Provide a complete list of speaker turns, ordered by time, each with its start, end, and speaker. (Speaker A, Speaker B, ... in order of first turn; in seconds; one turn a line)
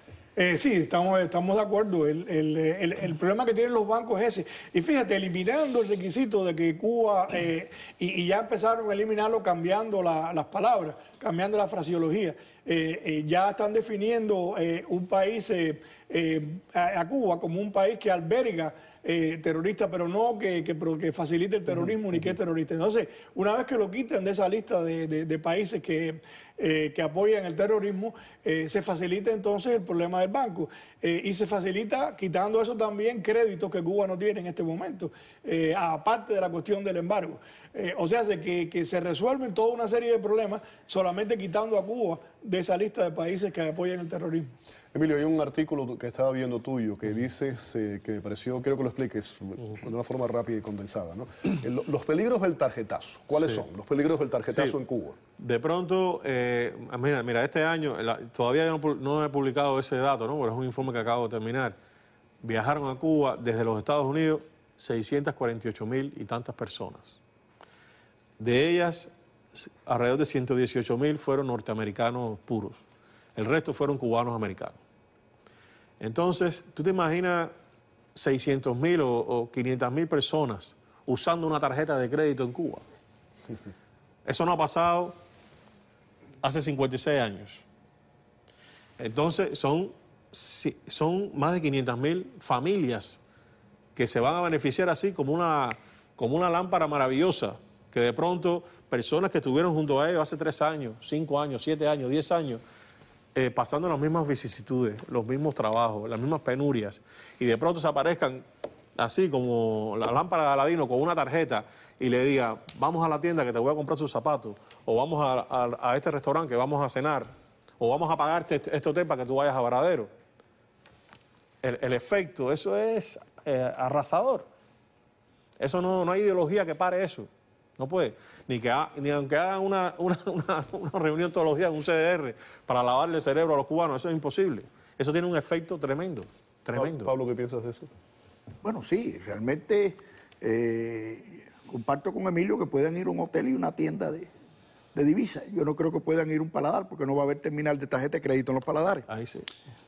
Speaker A: 0.4-44.5
Speaker B: 44.9-55.2
Speaker C: 54.5-54.8
Speaker C: 55.4-61.8
Speaker C: 62.4-67.2
Speaker C: 68.4-72.8
Speaker C: 73.4-74.8
Speaker C: 76.0-77.5
Speaker C: 78.2-82.8
Speaker C: 84.2-85.1
Speaker C: 86.4-87.6
Speaker C: 89.0-93.2
Speaker C: 94.0-102.6
Speaker C: 103.3-108.4
Speaker C: 109.0-120.1
Speaker C: 121.6-124.5
Speaker C: 125.6-137.1
Speaker B: 136.7-137.9
Speaker D: 138.6-144.3
Speaker D: 144.9-149.1
Speaker C: 149.1-149.5